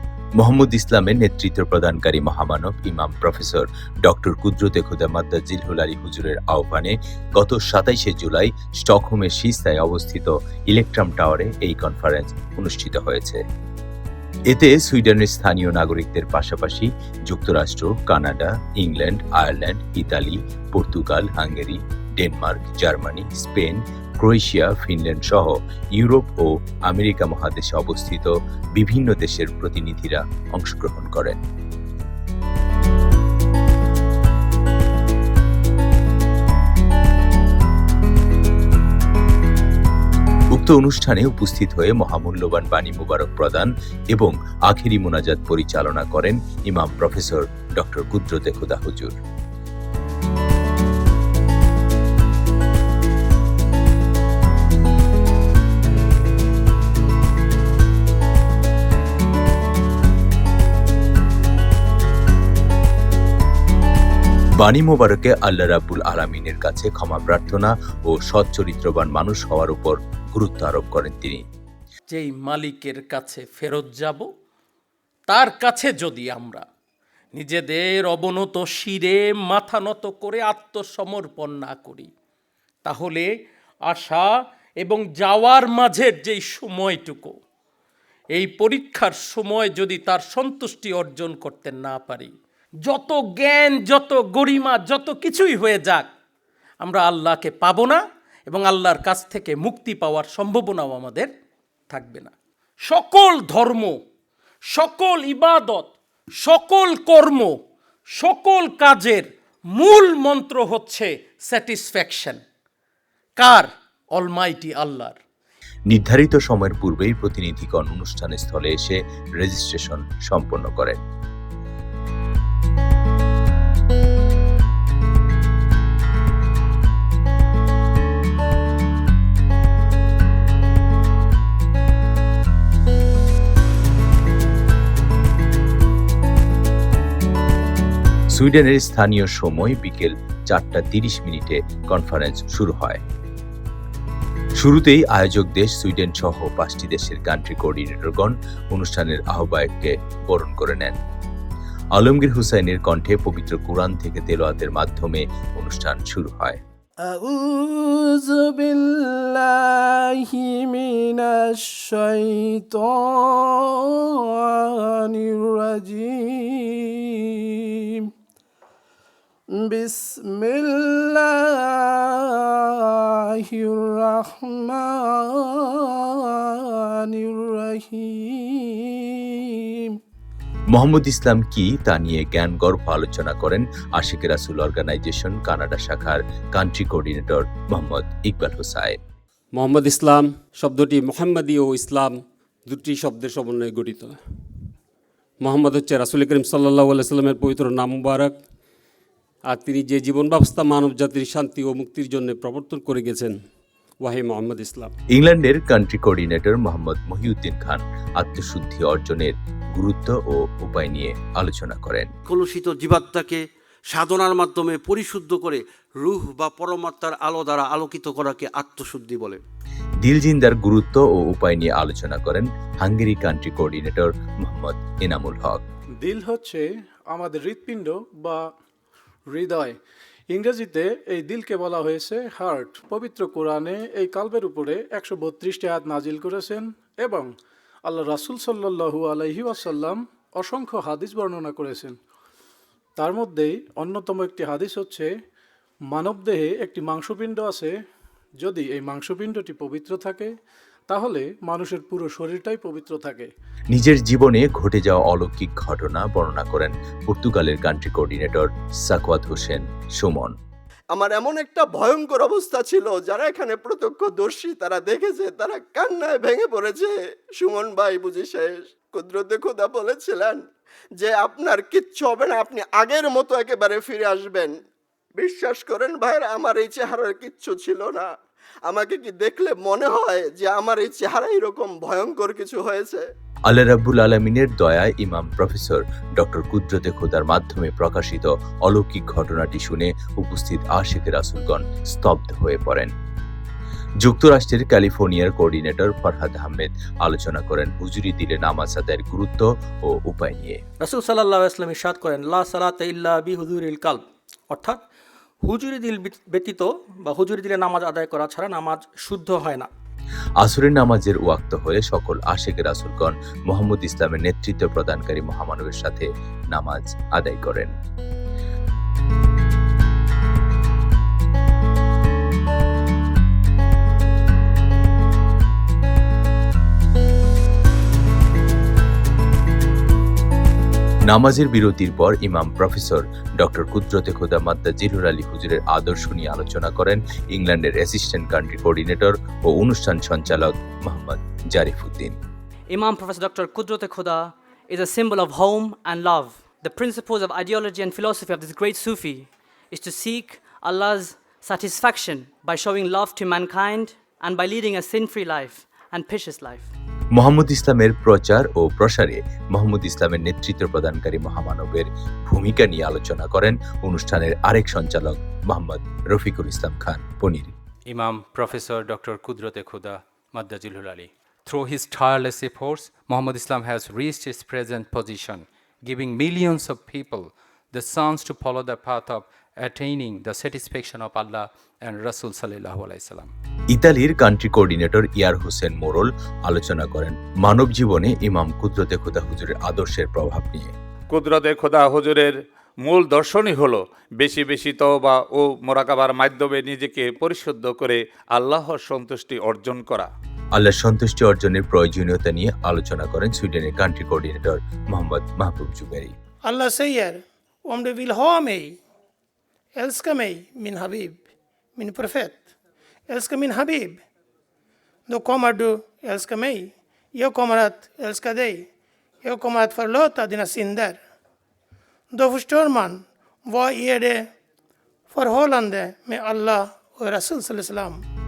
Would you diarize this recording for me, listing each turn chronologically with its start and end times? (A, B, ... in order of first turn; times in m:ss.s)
0:00.4-0:13.4 A
0:14.5-0:31.4 A
0:40.5-0:49.2 A
1:04.6-1:11.4 A
1:12.1-1:14.3 B
1:15.3-1:16.6 B
1:17.3-1:22.1 B
1:22.8-1:23.3 B
1:23.9-1:27.3 B
1:28.3-1:32.3 B
1:32.8-1:36.1 B
1:36.8-1:41.3 B
1:41.9-1:42.3 B
1:42.8-1:43.9 B
1:44.7-1:47.5 B
1:48.2-1:52.4 B
1:53.4-1:55.2 B
1:55.9-2:01.0 A
2:18.3-2:23.0 A
2:24.6-2:31.0 A
2:32.0-2:36.6 A
2:37.0-2:48.1 C
2:49.5-3:00.0 C
3:00.7-3:09.0 A
3:09.5-3:14.2 D
3:15.4-3:18.4 D
3:19.5-3:23.4 D
3:24.0-3:24.9 D
3:25.1-3:32.1 A
3:32.3-3:39.4 E
3:40.0-3:45.6 A
3:46.0-3:48.4 F
3:49.3-3:49.8 F
3:50.3-3:57.3 F
3:57.8-4:01.9 F
4:03.0-4:05.1 F
4:05.9-4:07.7 F
4:08.4-4:10.3 F
4:10.9-4:13.3 F
4:13.7-4:20.3 A
4:20.9-4:30.4 G
4:31.0-4:34.5 G
4:35.2-4:38.1 G
4:38.7-4:43.0 G
4:43.5-4:52.9 A
4:54.0-5:00.6 A
5:00.8-5:04.8 H
5:05.4-5:09.7 H
5:10.4-5:17.7 A
5:31.1-5:42.2 A
5:42.7-5:56.7 I
5:57.1-6:07.5 A
6:07.8-6:23.3 J
6:23.7-6:30.7 A
6:31.1-6:40.1 K
6:40.5-6:46.1 A
6:46.4-6:48.8 L
6:49.8-6:51.2 L
6:51.8-6:52.4 L
6:53.1-6:54.0 L
6:55.1-6:58.6 L
6:59.2-7:01.0 L
7:02.1-7:04.2 L
7:05.1-7:08.0 L